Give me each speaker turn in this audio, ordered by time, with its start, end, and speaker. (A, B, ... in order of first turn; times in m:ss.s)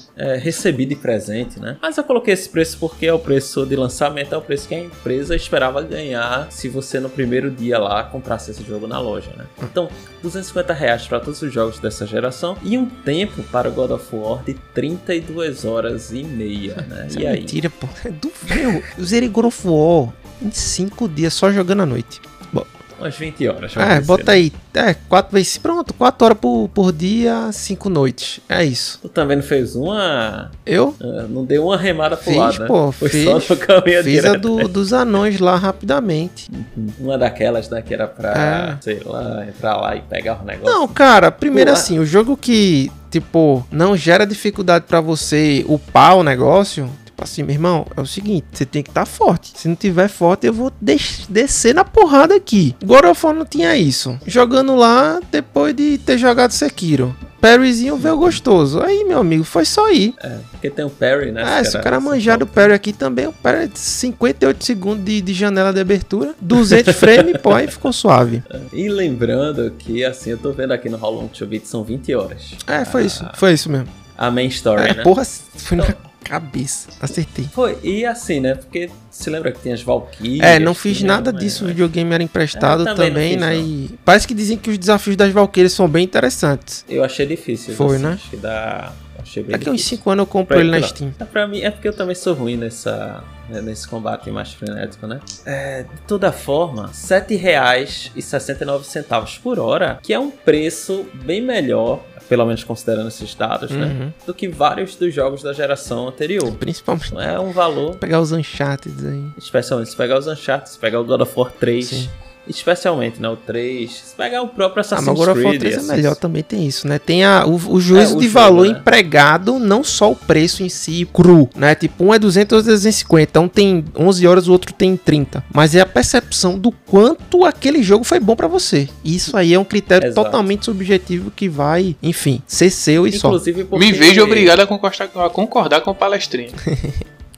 0:00.2-0:17.6 A
0:17.1-0:22.7 B
0:23.0-0:24.4 A
0:23.8-0:29.0 B
0:29.0-0:34.7 A
0:30.6-0:31.0 B
0:32.2-0:36.5 B
0:36.5-0:40.8 A
0:38.3-0:38.8 B
0:40.6-1:00.1 B
0:41.5-0:41.9 A
0:58.0-0:58.4 A
1:00.2-1:02.7 A
1:01.4-1:08.4 B
1:06.6-1:07.8 A
1:08.5-1:13.4 A
1:12.6-1:13.9 B
1:14.2-1:15.1 A
1:14.8-1:17.5 B
1:17.5-1:21.8 A
1:20.4-1:26.8 B
1:22.5-1:23.7 A
1:26.9-1:48.0 A
1:27.7-1:28.2 B
1:29.5-1:31.1 B
1:43.7-1:44.1 B
1:46.5-1:47.1 B
1:48.0-1:49.3 B
1:49.4-1:56.2 A
1:51.8-1:52.1 B
1:54.9-2:13.4 B
1:57.9-1:58.8 A
2:10.0-2:10.4 A
2:13.1-2:14.5 A
2:13.7-2:16.6 C
2:16.6-2:17.0 B